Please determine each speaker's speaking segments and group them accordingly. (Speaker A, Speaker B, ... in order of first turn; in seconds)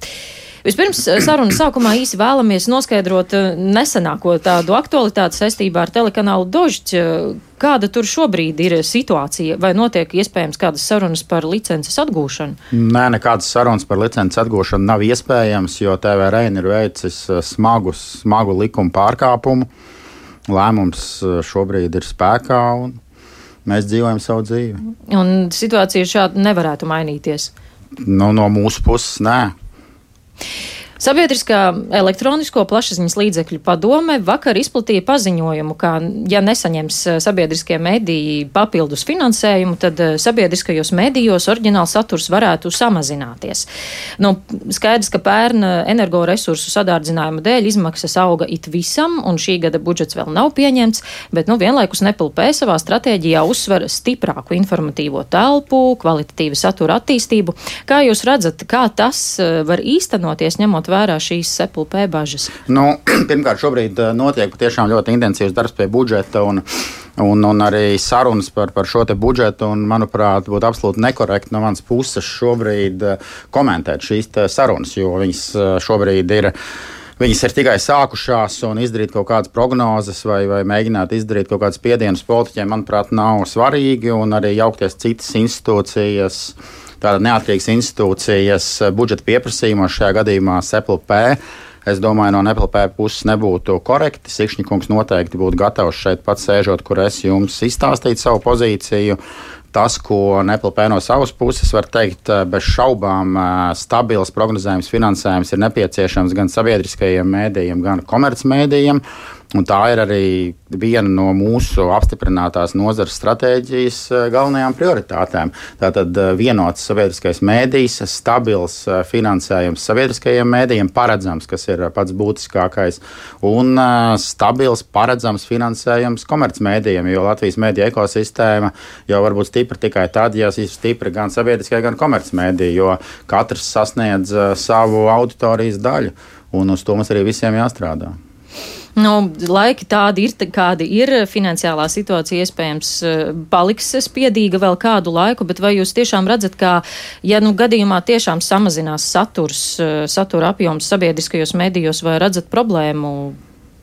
Speaker A: 0.7-12.6, 25.1-27.5, 31.0-43.7, 44.2-62.6, 139.0-153.4
Speaker B: 12.7-19.7, 20.5-23.0, 23.7-24.8, 28.0-29.5, 62.7-66.6, 67.2-76.5, 77.2-99.2, 99.7-109.0, 109.5-138.2